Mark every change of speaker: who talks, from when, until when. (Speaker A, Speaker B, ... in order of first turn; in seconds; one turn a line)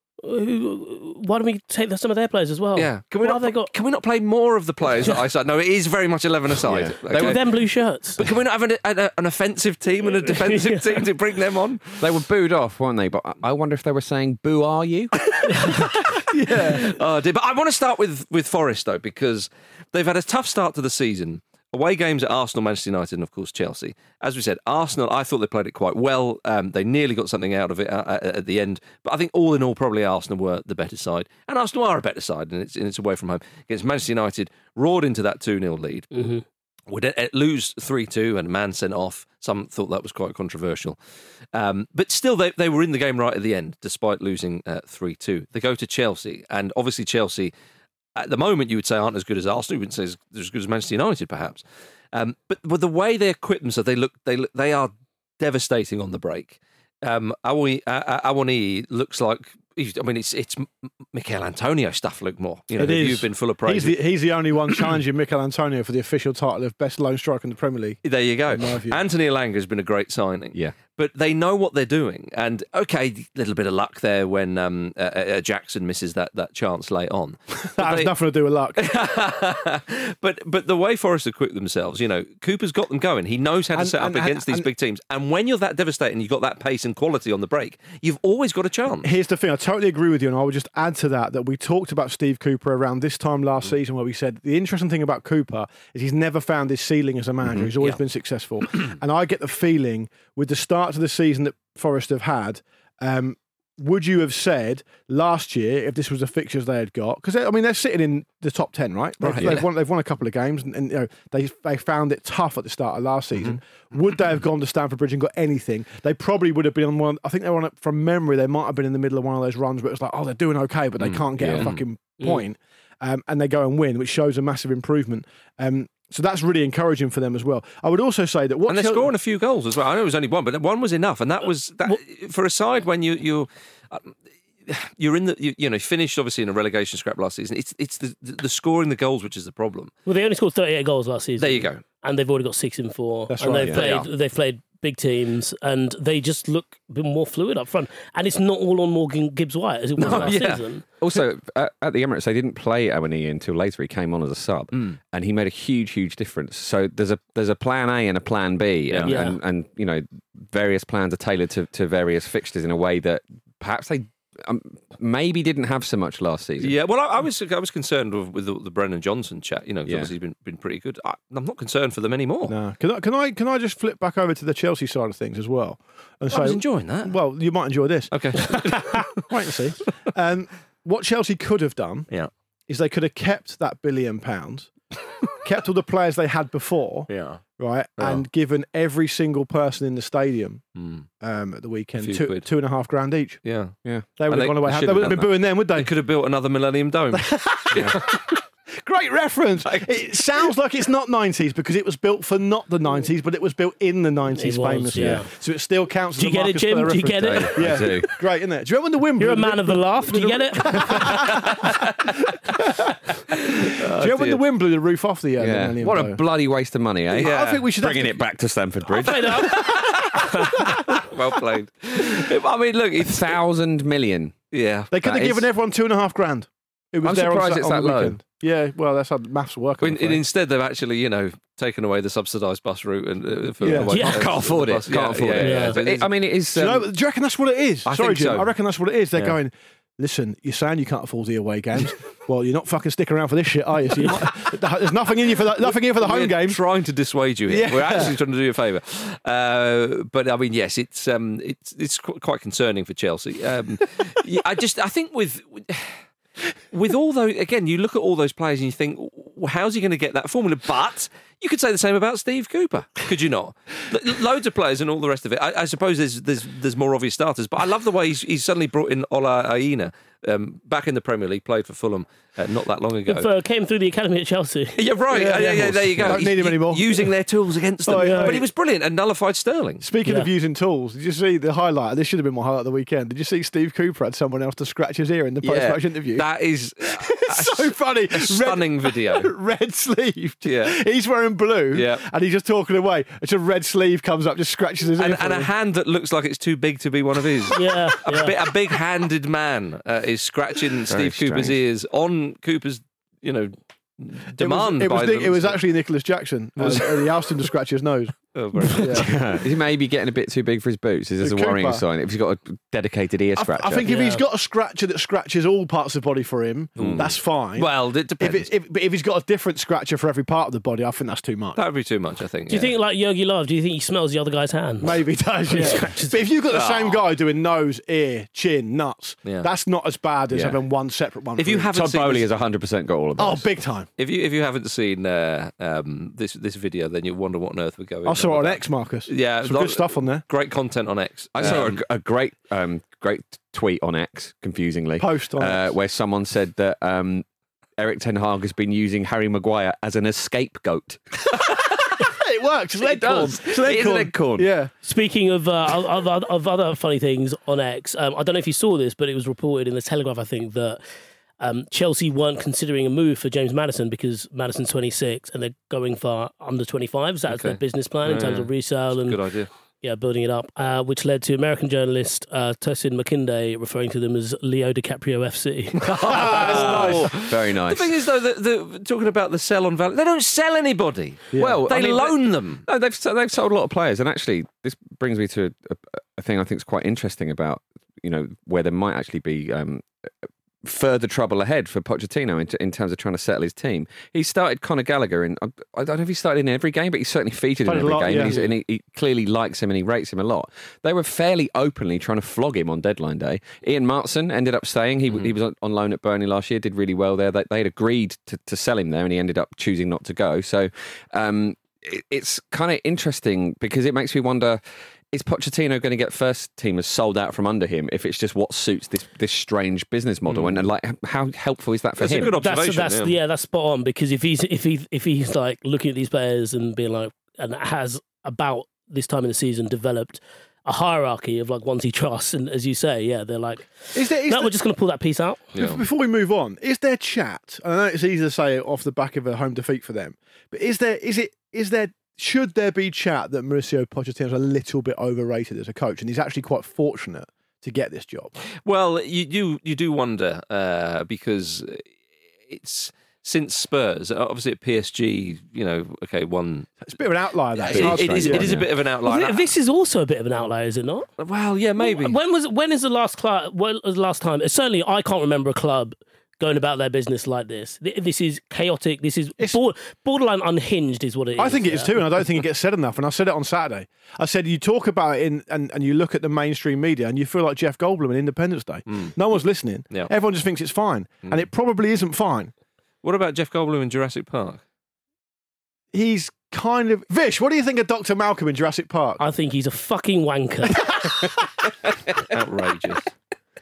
Speaker A: 0.2-3.7
Speaker B: 2.8-7.4
Speaker C: 6.6-7.3
Speaker A: 7.1-8.2
Speaker B: 8.2-12.1
Speaker A: 10.3-11.1
Speaker C: 12.0-15.2
Speaker B: 15.3-36.1
Speaker D: 16.3-16.9
Speaker A: 36.1-36.4
Speaker B: 36.9-41.0
Speaker B: 41.5-47.5
Speaker B: 48.1-64.0
Speaker D: 62.8-69.0
Speaker B: 68.0-78.1
Speaker D: 77.8-78.8
Speaker B: 78.8-89.1
Speaker D: 83.7-84.7
Speaker D: 89.0-129.1
Speaker B: 109.2-109.7
Speaker C: 109.4-109.6
Speaker B: 121.0-121.8
Speaker C: 121.3-121.7
Speaker B: 128.7-134.1
Speaker B: 134.7-139.9
Speaker A: 140.1-150.8
Speaker B: 141.4-141.8
Speaker D: 143.3-143.8
Speaker C: 143.5-144.0
Speaker B: 143.8-144.0
Speaker B: 150.0-150.6
Speaker C: 150.0-150.4
Speaker C: 151.0-166.8
Speaker B: 158.9-159.2
Speaker A: 159.1-159.4
Speaker B: 166.6-172.5
Speaker C: 169.8-170.1
Speaker D: 172.5-182.1
Speaker B: 176.3-177.2
Speaker B: 178.1-179.2
Speaker D: 182.7-184.7
Speaker D: 185.4-190.6
Speaker B: 187.1-187.4
Speaker B: 188.0-188.2
Speaker B: 190.8-191.1
Speaker D: 191.2-193.4
Speaker B: 192.0-192.5
Speaker B: 193.4-193.7
Speaker D: 194.2-195.9
Speaker B: 194.3-198.0
Speaker D: 197.1-216.2
Speaker A: 204.3-205.3
Speaker A: 206.2-208.0
Speaker C: 207.2-208.1
Speaker A: 209.2-211.2
Speaker B: 213.6-214.4
Speaker C: 215.4-219.6
Speaker D: 217.1-218.2
Speaker B: 217.2-217.7
Speaker A: 219.0-220.2
Speaker B: 219.2-223.3
Speaker C: 223.0-224.3
Speaker B: 224.5-225.4
Speaker D: 224.9-230.2
Speaker C: 227.0-228.2
Speaker B: 229.8-236.1
Speaker D: 233.6-234.0
Speaker C: 233.8-236.9
Speaker A: 233.9-234.3
Speaker A: 235.4-235.8
Speaker D: 236.5-246.6
Speaker B: 237.8-238.5
Speaker B: 245.6-256.0
Speaker D: 247.5-248.2
Speaker B: 256.7-273.3
Speaker A: 273.1-274.9
Speaker B: 274.8-279.8
Speaker D: 275.1-277.1
Speaker D: 277.8-278.4
Speaker A: 277.9-278.4
Speaker D: 279.8-286.2
Speaker A: 280.0-280.3
Speaker C: 285.4-285.7
Speaker B: 285.5-289.3
Speaker D: 287.0-295.5
Speaker B: 290.4-290.8
Speaker B: 291.7-292.0
Speaker B: 295.0-305.6
Speaker A: 297.5-298.4
Speaker C: 300.9-301.6
Speaker D: 304.4-308.1
Speaker B: 306.6-307.1
Speaker B: 308.3-309.1
Speaker D: 308.8-309.1
Speaker C: 308.9-313.9
Speaker D: 311.2-311.8
Speaker D: 313.4-317.7
Speaker A: 313.8-314.2
Speaker B: 316.8-318.5
Speaker C: 316.8-317.1
Speaker D: 318.2-321.6
Speaker B: 321.6-322.7
Speaker A: 322.5-326.2
Speaker D: 324.8-331.7
Speaker B: 326.5-327.0
Speaker C: 330.3-330.6
Speaker B: 331.4-332.3
Speaker C: 331.7-333.5
Speaker D: 333.2-333.9
Speaker B: 334.0-341.8
Speaker D: 338.1-340.2
Speaker C: 341.3-347.2
Speaker D: 345.0-345.7
Speaker C: 347.8-351.0
Speaker D: 352.0-354.7
Speaker C: 352.8-354.5
Speaker A: 354.8-360.8
Speaker A: 361.4-369.2
Speaker B: 367.3-369.5
Speaker A: 369.8-376.9
Speaker B: 375.8-382.6
Speaker D: 375.9-377.1
Speaker C: 376.5-377.9
Speaker D: 381.3-381.6
Speaker C: 381.3-389.9
Speaker C: 390.6-414.6
Speaker D: 397.6-398.4
Speaker C: 415.1-422.4
Speaker B: 420.3-420.6
Speaker B: 422.0-423.1
Speaker A: 422.2-435.5
Speaker D: 433.9-434.5
Speaker B: 435.5-435.8
Speaker D: 435.5-448.3
Speaker B: 448.6-451.9
Speaker B: 452.5-456.8
Speaker D: 456.8-458.6
Speaker B: 457.6-459.5
Speaker C: 457.7-458.7
Speaker A: 459.0-461.1
Speaker B: 461.2-462.2
Speaker A: 461.8-472.3
Speaker D: 471.4-482.5
Speaker B: 483.0-484.6
Speaker D: 485.9-489.2
Speaker A: 489.2-490.9
Speaker D: 490.8-491.3
Speaker B: 492.3-493.1